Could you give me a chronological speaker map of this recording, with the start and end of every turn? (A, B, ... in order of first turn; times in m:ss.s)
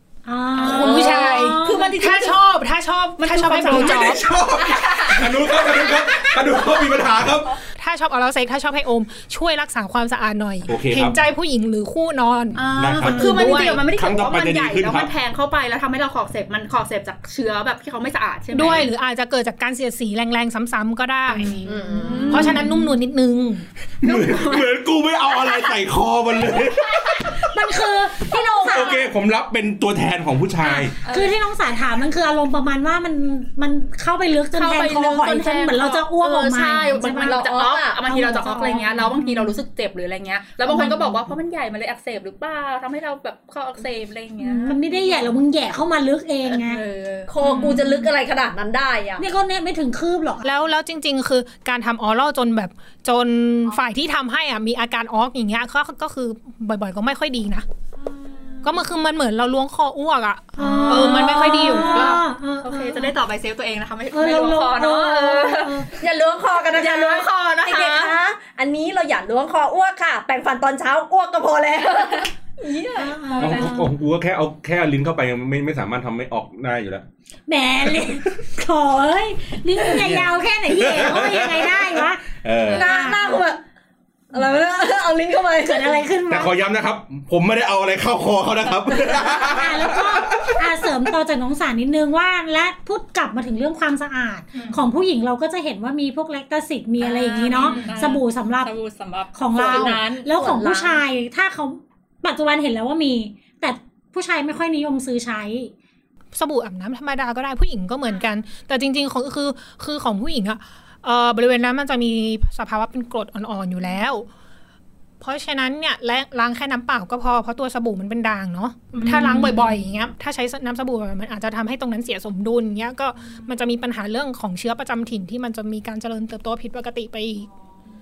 0:00.2-0:01.9 A
0:00.5-0:04.3 B
0:00.6-0:02.4 C
0:03.2-0:05.0 C
0:03.7-0:07.6 D
0:04.6-0:05.9 E
0:07.8-0:13.8 B
0:10.7-0:11.2 D
0:12.5-0:18.9 C
0:12.7-0:15.1 D
0:18.5-0:23.6 B
0:21.3-0:21.6 C
0:21.6-0:22.6 E
0:22.0-0:23.0 A
0:22.2-0:22.6 C
0:24.0-0:27.5 D
0:24.0-0:24.6 C
0:27.4-0:29.1 A
0:28.6-0:30.9 D
0:30.6-0:37.4 A
0:31.0-0:31.3 C
0:34.5-0:45.3 C
0:37.1-0:38.0 E
0:38.0-0:39.6 A
0:40.7-0:41.1 A
0:44.4-0:46.8 A
0:46.5-0:47.8 C
0:47.3-0:49.2 E
0:47.4-0:47.8 A
0:49.2-0:50.4 A
0:50.4-0:57.6 B
0:58.0-0:58.7 A
0:58.6-1:02.2 B
1:00.6-1:03.1 A
1:00.9-1:05.9 C
1:04.1-1:05.9 A
1:06.0-1:13.7 E
1:06.7-1:08.2 C
1:12.9-1:13.9 A
1:13.4-1:17.0 D
1:17.5-1:23.4 A
1:19.9-1:22.9 D
1:22.7-1:23.6 E
1:24.3-1:26.0 E
1:25.6-1:26.5 A
1:26.3-1:31.1 D
1:29.3-1:38.7 A
1:34.5-1:34.8 B
1:37.0-1:40.3 C
1:37.6-1:38.0 B
1:39.3-1:45.7 A
1:39.6-1:41.0 E
1:46.3-1:54.3 B
1:55.2-2:07.5 B
1:59.0-1:59.8 A